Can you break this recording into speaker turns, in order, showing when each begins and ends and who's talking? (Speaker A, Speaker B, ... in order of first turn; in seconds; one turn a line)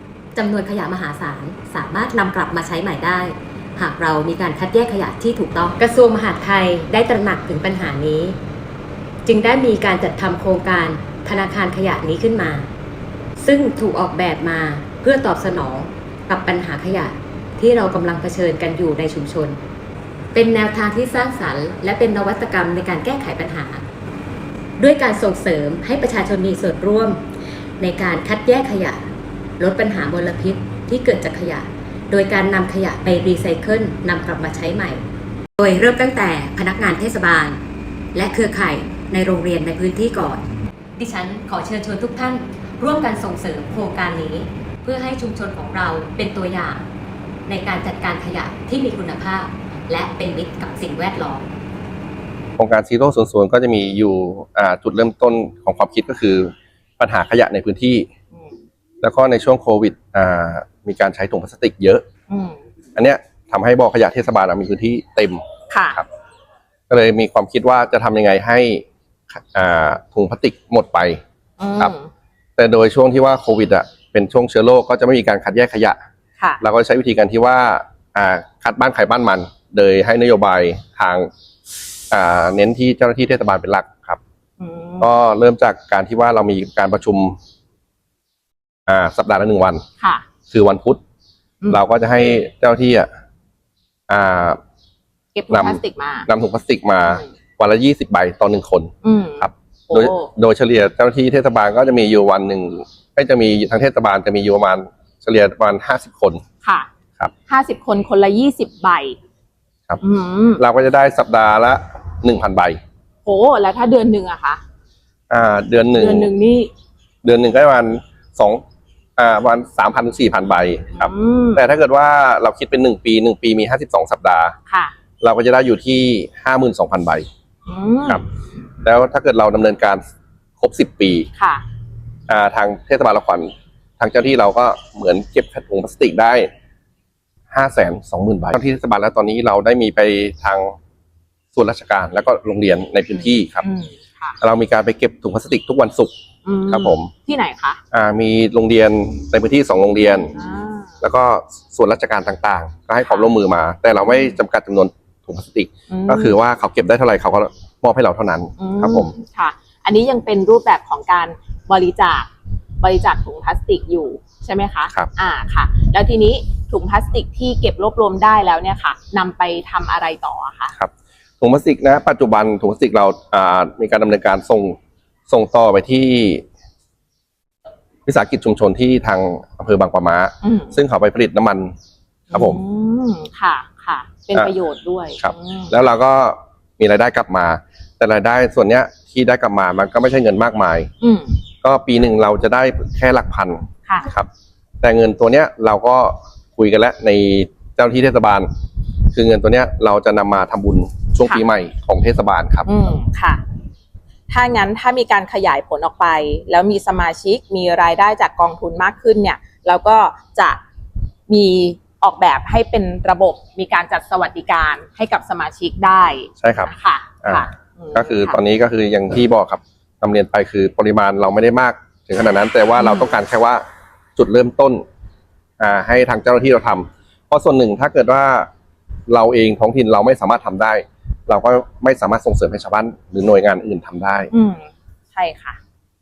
Speaker A: 0.3-8.4
Speaker A: 9.2-12.7
Speaker A: 13.4-19.6
Speaker A: 20.3-23.8
Speaker A: 24.8-27.2
Speaker A: 27.8-29.0
Speaker A: 29.6-35.0
Speaker A: 35.6-37.6
Speaker A: 38.1-40.4
Speaker A: 41.0-46.9
Speaker A: 47.5-51.5
Speaker B: 52.6-58.1
Speaker B: 59.0-62.0
Speaker C: 62.3-62.6
Speaker B: 63.0-66.1
Speaker C: 65.7-66.0
Speaker B: 66.9-68.8
Speaker B: 69.4-71.2
Speaker C: 71.6-72.1
Speaker B: 72.6-76.0
Speaker B: 76.6-81.3
Speaker B: 82.1-84.2
Speaker C: 84.6-85.1
Speaker B: 85.0-87.4
Speaker B: 88.9-89.8
Speaker C: 90.0-90.3
Speaker B: 90.5-91.0
Speaker B: 91.7-93.1
Speaker B: 94.1-94.6
Speaker C: 95.3-96.3
Speaker B: 95.5-106.4
Speaker C: 99.0-100.3
Speaker C: 106.6-106.9
Speaker C: 107.5-109.2
Speaker C: 110.0-110.6
Speaker B: 110.6-112.8
Speaker C: 113.2-114.6
Speaker B: 115.3-116.3
Speaker C: 116.0-116.7
Speaker B: 117.2-118.6
Speaker B: 119.2-124.5
Speaker C: 121.0-121.6
Speaker C: 124.7-124.9
Speaker B: 125.2-127.3
Speaker C: 127.7-128.2
Speaker B: 128.8-130.0
Speaker B: 130.6-131.3
Speaker C: 131.4-131.6
Speaker B: 132.3-136.5
Speaker B: 137.5-140.8
Speaker B: 141.5-143.7
Speaker C: 143.1-144.4
Speaker B: 144.4-146.1
Speaker C: 146.4-147.8
Speaker B: 146.7-147.1
Speaker B: 147.9-150.3
Speaker C: 150.3-150.9
Speaker B: 151.0-159.1
Speaker C: 153.0-153.3
Speaker C: 155.9-156.4
Speaker C: 158.6-162.3
Speaker C: 162.8-170.7
Speaker B: 170.8-174.8
Speaker B: 175.3-176.4
Speaker B: 178.1-181.7
Speaker C: 180.4-180.8
Speaker C: 182.3-185.7
Speaker B: 182.3-182.6
Speaker B: 185.2-190.9
Speaker C: 191.0-191.4
Speaker B: 191.6-194.3
Speaker B: 194.8-198.5
Speaker B: 199.1-202.7
Speaker C: 202.7-203.4
Speaker C: 204.3-210.6
Speaker C: 211.3-218.4
Speaker B: 216.4-216.7
Speaker B: 217.2-223.7
Speaker C: 222.8-223.2
Speaker B: 224.2-224.8
Speaker B: 225.6-228.5
Speaker B: 229.1-234.3
Speaker C: 234.3-235.6